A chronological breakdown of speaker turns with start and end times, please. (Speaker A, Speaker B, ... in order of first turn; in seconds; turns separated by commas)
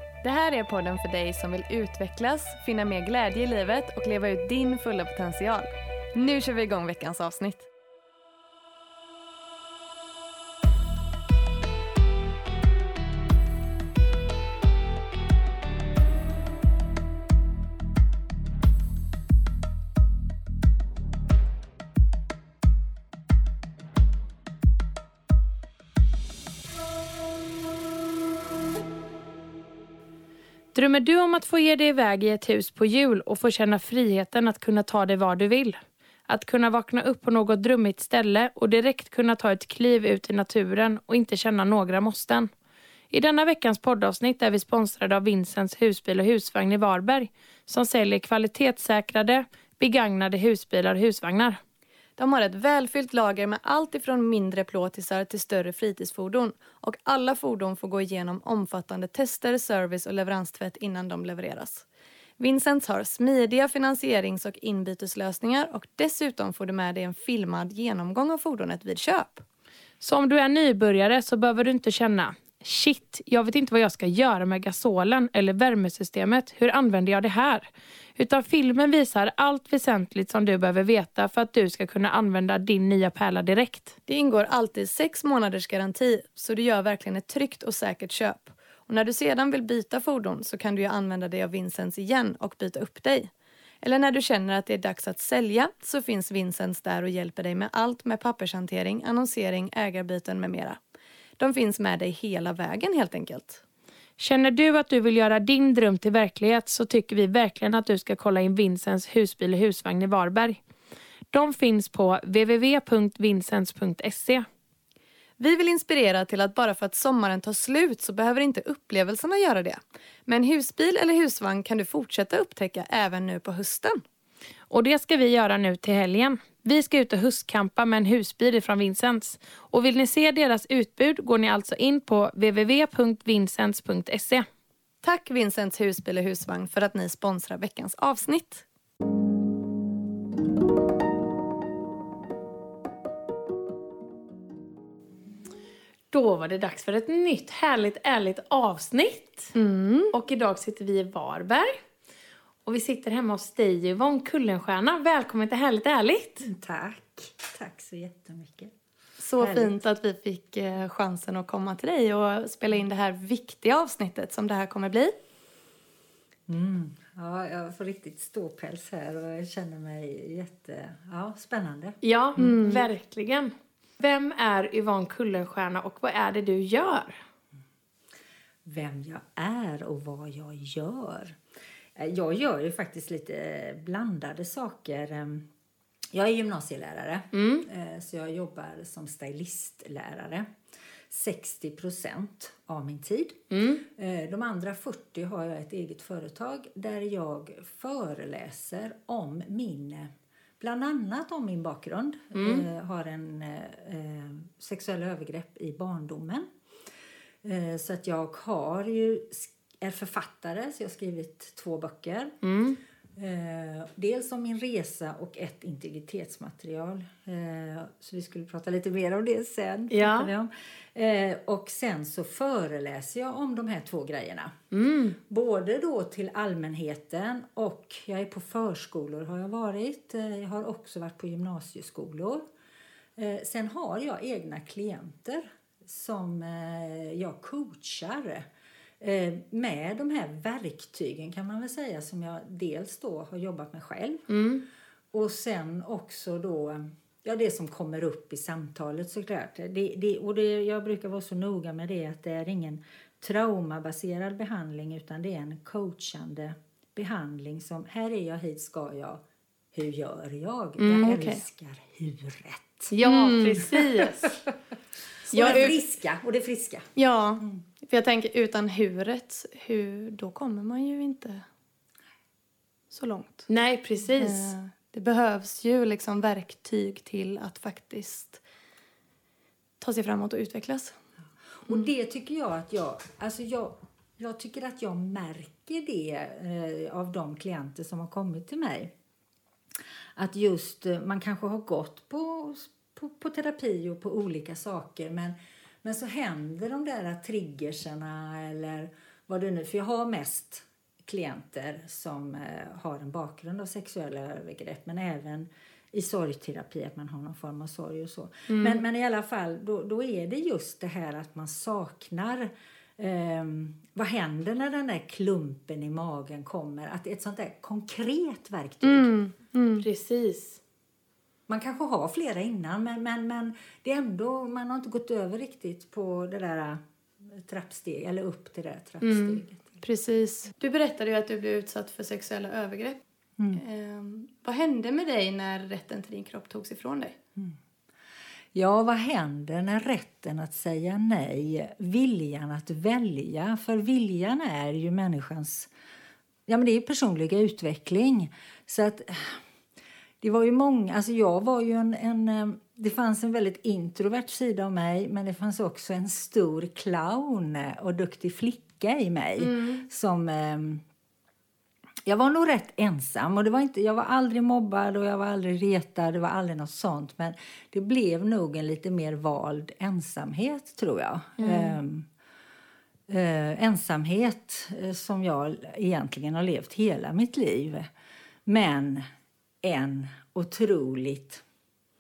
Speaker A: 0.2-7.7, Speaker B: 30.7-42.5, Speaker B: 43.1-51.6, Speaker A: 52.2-61.9, Speaker A: 62.4-69.5, Speaker B: 70.0-84.0, Speaker A: 84.1-93.3, Speaker A: 93.8-100.8, Speaker A: 101.4-103.6, Speaker B: 104.2-110.6, Speaker B: 111.3-114.5, Speaker A: 115.4-124.0, Speaker B: 124.7-134.5, Speaker A: 135.0-138.7, Speaker B: 146.1-149.5, Speaker A: 149.6-150.1, Speaker B: 150.1-151.8, Speaker B: 152.7-156.5, Speaker C: 156.4-158.7, Speaker A: 159.2-165.2, Speaker C: 159.4-159.7, Speaker C: 166.5-172.6, Speaker B: 172.0-177.2, Speaker A: 172.4-172.8, Speaker C: 178.7-181.4, Speaker C: 181.9-185.5, Speaker C: 186.1-190.5, Speaker B: 187.3-187.7, Speaker C: 191.1-206.5, Speaker B: 193.5-193.8, Speaker B: 202.3-202.7, Speaker C: 207.4-212.3, Speaker B: 212.4-212.8, Speaker C: 213.2-224.5, Speaker B: 219.9-220.3, Speaker B: 224.7-225.2, Speaker C: 225.2-232.5, Speaker C: 233.2-238.5, Speaker C: 239.0-244.2, Speaker B: 244.3-244.6, Speaker C: 245.1-262.9, Speaker A: 260.8-261.4, Speaker B: 262.9-264.4, Speaker A: 263.0-264.1, Speaker B: 265.3-265.8, Speaker C: 265.3-266.9, Speaker A: 265.3-265.7, Speaker A: 267.0-271.4, Speaker A: 272.9-273.5, Speaker B: 273.5-274.5, Speaker A: 274.2-278.4, Speaker A: 279.8-281.0, Speaker C: 281.6-288.9, Speaker C: 290.2-319.1, Speaker A: 318.8-319.9, Speaker B: 319.8-320.6, Speaker C: 321.5-329.8, Speaker A: 329.8-333.0, Speaker A: 333.6-337.2, Speaker C: 338.5-345.7, Speaker C: 346.5-349.4, Speaker C: 350.2-360.8, Speaker A: 359.4-359.9, Speaker C: 362.1-372.1, Speaker B: 371.4-371.8, Speaker C: 373.1-377.9, Speaker C: 378.5-379.1, Speaker C: 379.6-381.4